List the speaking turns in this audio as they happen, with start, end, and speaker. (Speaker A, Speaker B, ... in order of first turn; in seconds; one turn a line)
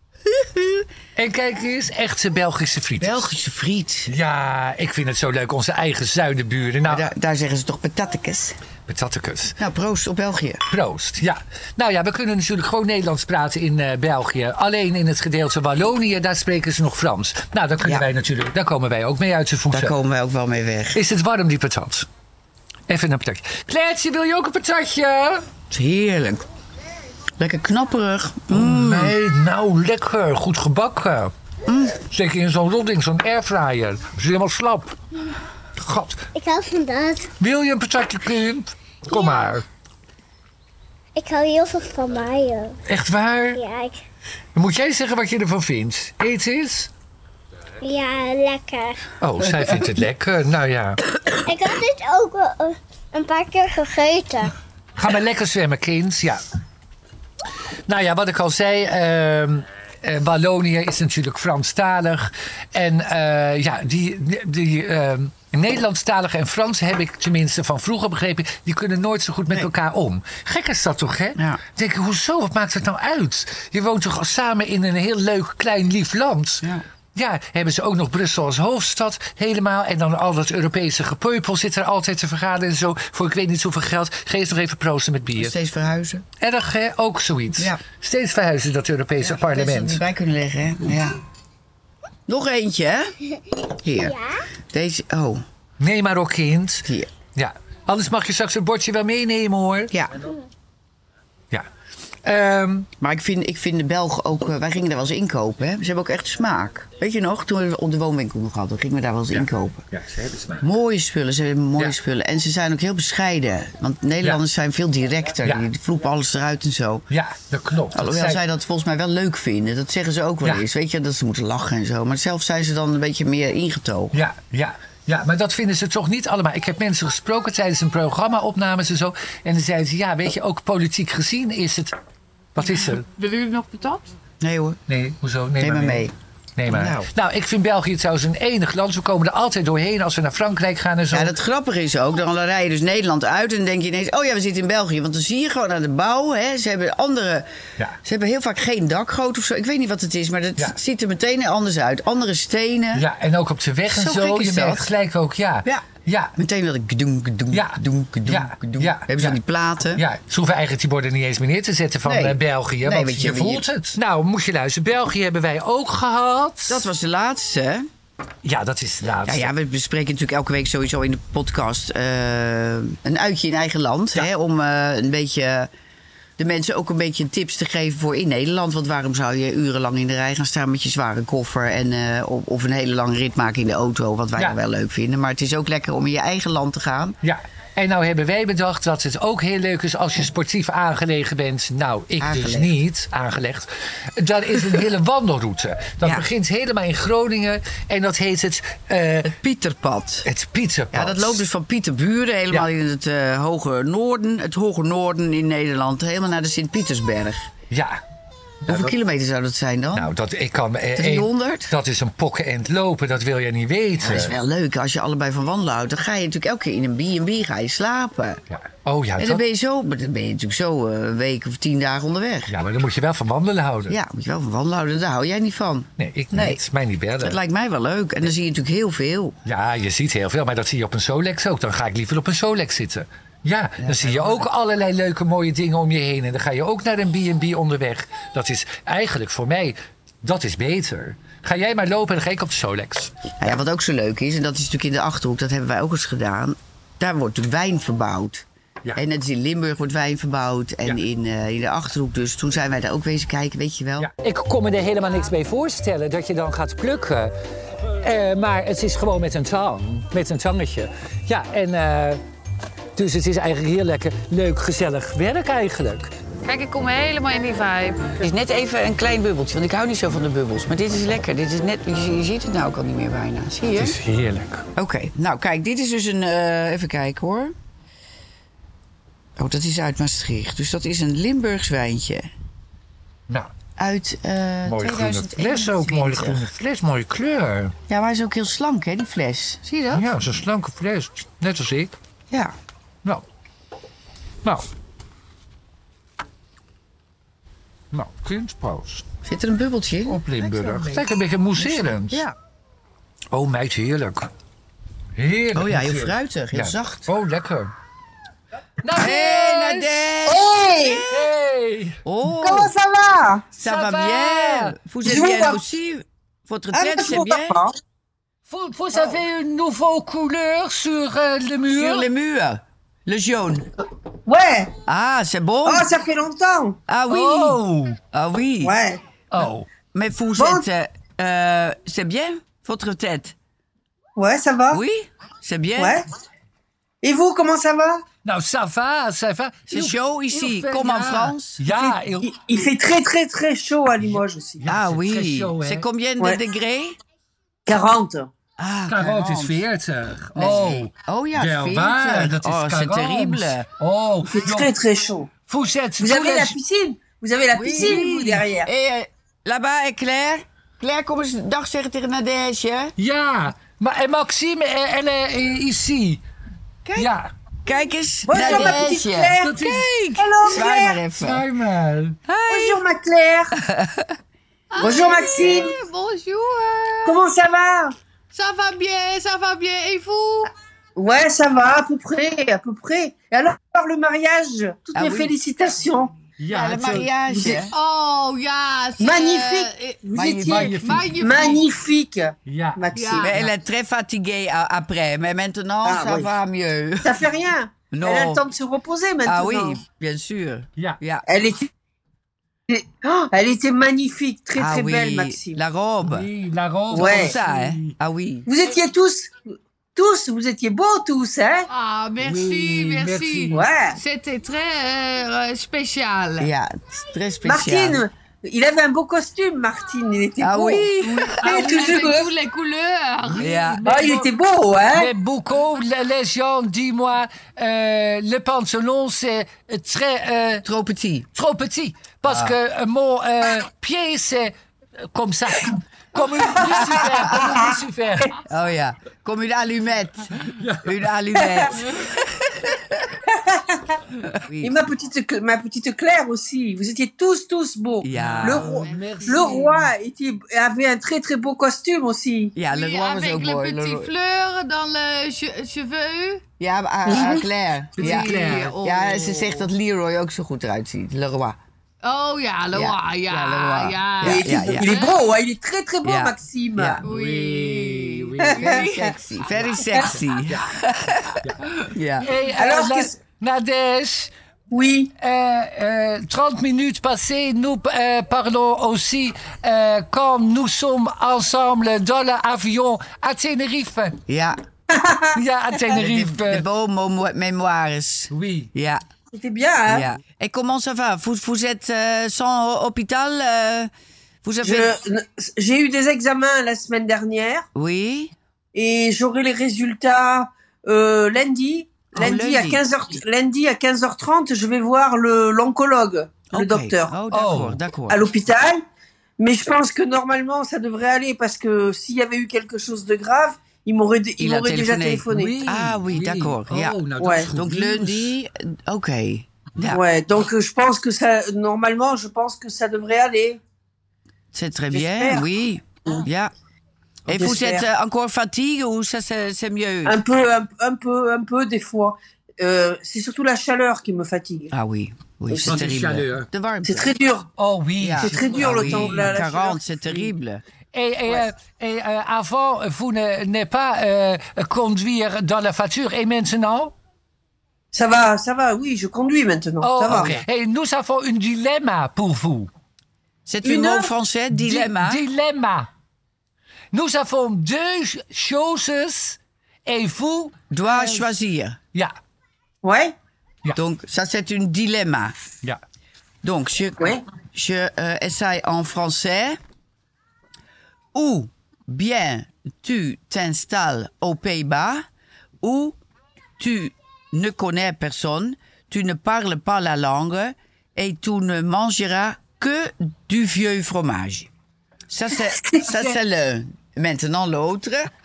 Speaker A: 0.3-0.8
Speaker B: 1.1-3.3
Speaker A: 3.0-4.1
Speaker B: 4.1-7.1
Speaker A: 6.9-8.6
Speaker B: 8.9-9.6
Speaker A: 9.6-10.6
Speaker B: 10.7-20.0
Speaker A: 19.7-21.0
Speaker B: 20.9-22.1
Speaker B: 22.9-25.4
Speaker A: 25.7-26.4
Speaker A: 27.4-29.1
Speaker B: 28.5-31.3
Speaker A: 31.7-32.0
Speaker B: 32.0-35.0
Speaker B: 35.8-36.3
Speaker C: 36.3-37.3
Speaker B: 37.4-39.6
Speaker C: 41.1-42.8
Speaker B: 42.8-43.6
Speaker C: 43.5-44.0
Speaker B: 44.5-46.9
Speaker C: 47.8-49.0
Speaker B: 49.2-51.0
Speaker C: 51.4-54.5
Speaker B: 55.0-56.4
Speaker B: 57.9-85.5
Speaker A: 71.3-71.6
Speaker A: 85.4-86.2
Speaker B: 86.4-90.0
Speaker A: 89.2-91.2
Speaker A: 92.3-93.1
Speaker A: 93.8-94.2
Speaker A: 94.7-95.4
Speaker B: 95.8-99.9
Speaker A: 99.9-100.2
Speaker B: 102.2-102.9
Speaker A: 103.0-109.8
Speaker B: 109.3-110.6
Speaker A: 110.6-117.1
Speaker B: 117.1-118.4
Speaker A: 117.9-124.1
Speaker B: 124.1-131.9
Speaker B: 132.5-133.1
Speaker D: 132.9-134.1
Speaker A: 134.4-134.8
Speaker B: 134.9-141.3
Speaker A: 135.6-136.1
Speaker A: 136.7-137.1
Speaker A: 141.1-147.5
Speaker A: 148.0-153.1
Speaker B: 152.9-156.3
Speaker A: 153.9-154.9
Speaker A: 156.4-160.0
Speaker B: 157.5-159.4
Speaker B: 159.9-166.8
Speaker A: 162.0-163.7
Speaker A: 166.7-167.9
Speaker B: 168.4-169.5
Speaker A: 169.2-175.7
Speaker A: 176.4-187.2
Speaker B: 187.2-199.3
Speaker A: 192.2-192.8
Speaker A: 199.2-200.3
Speaker B: 200.2-201.4
Speaker A: 200.9-207.5
Speaker B: 207.7-208.0
Speaker B: 208.6-209.0
Speaker A: 208.7-210.1
Speaker B: 209.9-214.3
Speaker A: 210.9-211.7
Speaker A: 214.0-218.4
Speaker B: 218.5-219.4
Speaker A: 219.2-222.5
Speaker B: 222.5-224.0
Speaker A: 223.9-226.6
Speaker B: 226.0-227.4
Speaker A: 227.2-229.4
Speaker B: 229.4-243.3
Speaker A: 233.8-234.4
Speaker A: 243.4-254.1
Speaker B: 254.0-257.4
Speaker B: 257.9-262.2
Speaker B: 262.9-266.1
Speaker D: 266.4-268.1
Speaker A: 268.2-273.9
Speaker B: 273.7-274.7
Speaker A: 274.8-277.5
Speaker A: 279.4-282.3
Speaker A: 283.8-286.5
Speaker B: 284.6-287.8
Speaker A: 287.9-289.8
Speaker D: 289.7-290.0
Speaker B: 289.9-291.9
Speaker B: 294.4-294.7
Speaker B: 297.9-299.0
Speaker A: 299.2-300.2
Speaker B: 300.1-302.2
Speaker D: 300.4-300.8
Speaker A: 301.6-302.3
Speaker B: 303.3-304.3
Speaker B: 305.1-307.7
Speaker A: 305.5-307.1
Speaker B: 308.8-310.2
Speaker A: 308.9-310.9
Speaker E: 310.2-311.3
Speaker B: 311.0-312.0
Speaker A: 312.0-312.7
Speaker E: 312.4-313.4
Speaker A: 313.6-317.6
Speaker B: 313.6-314.8
Speaker E: 315.0-315.6
Speaker E: 316.7-317.7
Speaker B: 318.5-322.1
Speaker A: 321.7-323.7
Speaker E: 324.2-324.7
Speaker A: 324.9-325.9
Speaker E: 325.6-326.8
Speaker A: 326.9-327.6
Speaker B: 327.1-328.0
Speaker A: 328.1-328.7
Speaker E: 328.6-329.0
Speaker B: 329.3-329.7
Speaker A: 329.9-333.3
Speaker E: 330.4-330.6
Speaker E: 334.1-334.8
Speaker A: 334.7-336.0
Speaker E: 335.8-336.1
Speaker E: 337.0-338.0
Speaker B: 338.2-342.3
Speaker A: 339.7-341.6
Speaker E: 342.2-344.6
Speaker B: 344.0-345.9
Speaker A: 344.6-347.0
Speaker E: 347.6-348.3
Speaker A: 348.6-349.6
Speaker B: 348.9-354.7
Speaker A: 350.3-353.6
Speaker E: 354.2-355.3
Speaker B: 355.5-356.6
Speaker E: 356.0-358.7
Speaker A: 357.5-362.9
Speaker B: 357.7-358.4
Speaker B: 363.0-366.2
Speaker A: 366.8-367.1
Speaker B: 366.9-367.3
Speaker A: 367.6-369.7
Speaker E: 368.3-369.6
Speaker B: 368.4-368.8
Speaker B: 369.4-372.2
Speaker E: 370.2-371.0
Speaker A: 370.4-371.4
Speaker A: 372.3-372.8
Speaker E: 372.5-373.5
Speaker A: 373.6-374.1
Speaker D: 374.7-377.2
Speaker E: 374.8-375.7
Speaker E: 377.0-377.9
Speaker D: 378.3-380.5
Speaker E: 380.9-386.1
Speaker A: 384.9-385.3
Speaker B: 386.4-387.1
Speaker A: 386.5-387.7
Speaker E: 387.3-387.6
Speaker D: 387.7-391.6
Speaker E: 389.0-393.4
Speaker A: 390.1-390.8
Speaker B: 390.5-391.1
Speaker B: 392.4-393.5
Speaker D: 392.9-393.4
Speaker A: 393.2-397.2
Speaker E: 395.8-396.3
Speaker E: 397.0-399.8
Speaker A: 397.9-398.4
Speaker A: 399.2-401.2
Speaker E: 401.3-401.7
Speaker E: 402.7-405.6
Speaker A: 404.6-406.3
Speaker B: 406.0-407.9
Speaker A: 406.9-408.5
Speaker E: 406.9-407.4
Speaker E: 408.4-409.3
Speaker E: 409.9-411.7
Speaker D: 411.7-416.5
Speaker B: 412.2-413.6
Speaker E: 413.5-414.0
Speaker A: 416.4-418.0
Speaker E: 417.4-422.3
Speaker A: 420.4-421.9
Speaker D: 420.8-423.6
Speaker B: 423.2-424.2
Speaker A: 423.4-423.9
Speaker E: 423.8-425.1
Speaker B: 424.9-430.6
Speaker A: 430.6-431.3
Speaker B: 431.3-438.3
Speaker A: 432.3-432.5
Speaker E: 436.6-437.6
Speaker A: 436.9-437.4
Speaker A: 438.4-442.2
Speaker B: 440.4-441.1
Speaker E: 441.4-441.7
Speaker E: 443.3-444.0
Speaker A: 444.4-444.8
Speaker E: 444.6-452.6
Speaker A: 448.0-448.7
Speaker B: 448.1-449.8
Speaker D: 448.8-449.8
Speaker A: 452.6-454.1
Speaker D: 452.6-456.4
Speaker A: 456.6-461.6
Speaker E: 457.1-457.4
Speaker B: 458.0-458.8
Speaker D: 458.0-459.7
Speaker D: 462.0-465.1
Speaker A: 462.7-464.9
Speaker E: 464.2-467.0
Speaker A: 466.0-467.0
Speaker B: 467.0-468.8
Speaker D: 467.0-469.1
Speaker E: 468.4-469.0
Speaker A: 468.6-472.3
Speaker B: 469.5-474.3
Speaker E: 472.5-473.1
Speaker E: 474.7-475.1
Speaker B: 475.2-484.2
Speaker A: 484.3-484.6
Speaker E: 484.9-485.4
Speaker B: 485.3-486.6
Speaker A: 485.9-489.0
Speaker B: 488.3-488.7
Speaker E: 489.3-490.1
Speaker A: 489.9-493.9
Speaker A: 494.4-494.9
Speaker E: 494.6-497.7
Speaker A: 497.7-498.3
Speaker E: 498.7-507.1
Speaker A: 502.1-502.8
Speaker A: 506.5-508.2
Speaker B: 507.3-507.8
Speaker E: 508.1-508.8
Speaker E: 509.4-515.5
Speaker A: 514.4-517.0
Speaker B: 515.3-518.3
Speaker E: 517.2-517.5
Speaker A: 517.5-520.0
Speaker E: 519.9-523.6
Speaker A: 524.5-526.5
Speaker E: 524.9-525.5
Speaker A: 527.2-530.2
Speaker E: 527.3-527.9
Speaker E: 530.0-534.7
Speaker A: 534.7-537.1
Speaker B: 535.6-536.5
Speaker E: 536.8-537.5
Speaker B: 537.6-539.3
Speaker A: 538.0-540.6
Speaker E: 538.2-540.3
Speaker B: 540.9-546.9
Speaker E: 547.9-550.4
Speaker B: 549.8-552.7
Speaker A: 553.5-555.2
Speaker E: 553.6-554.1
Speaker B: 554.5-555.9
Speaker B: 556.9-561.3
Speaker A: 560.7-561.8
Speaker E: 562.8-563.1
Speaker A: 563.8-565.4
Speaker A: 566.4-569.6
Speaker A: 571.1-575.1
Speaker A: 575.6-576.0
Speaker A: 576.6-584.5
Speaker A: 585.1-588.1
Speaker B: 585.9-586.2